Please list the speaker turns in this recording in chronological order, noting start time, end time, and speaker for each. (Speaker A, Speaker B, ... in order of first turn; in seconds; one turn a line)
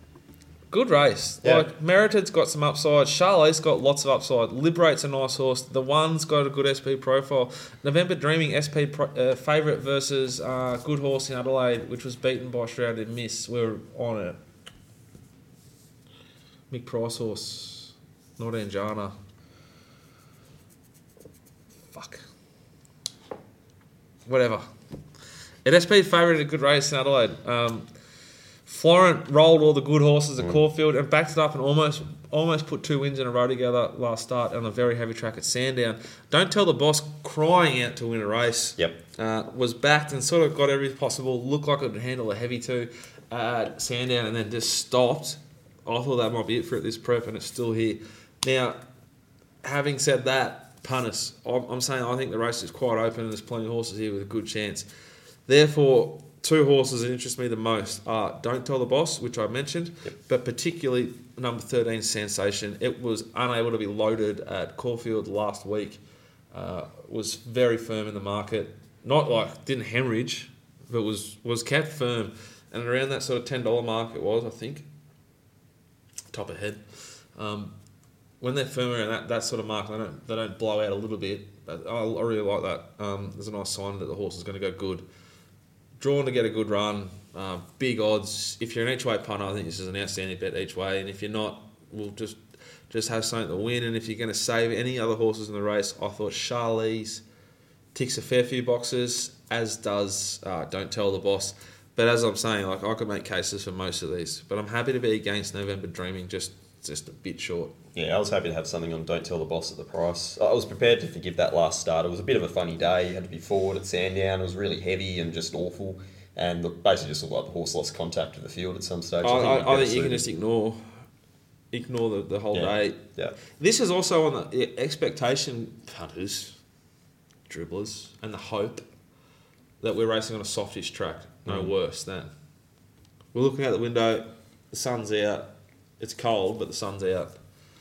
Speaker A: 0.7-14.4
Speaker B: 1.4-1.7
Speaker A: 16.7-19.1
Speaker A: 21.9-22.2
Speaker A: 24.2-24.7
Speaker A: 25.6-27.9
Speaker A: 28.6-48.8
Speaker A: 49.6-54.9
Speaker A: 55.5-66.0
Speaker A: 66.5-74.8
Speaker A: 76.3-77.7
Speaker A: 78.4-85.0
Speaker A: 86.0-97.2
Speaker A: 97.9-107.7
Speaker B: 107.9-120.2
Speaker A: 119.2-121.0
Speaker A: 121.7-126.6
Speaker B: 122.5-123.3
Speaker A: 127.5-128.8
Speaker A: 129.8-132.3
Speaker B: 131.4-131.7
Speaker A: 133.3-137.3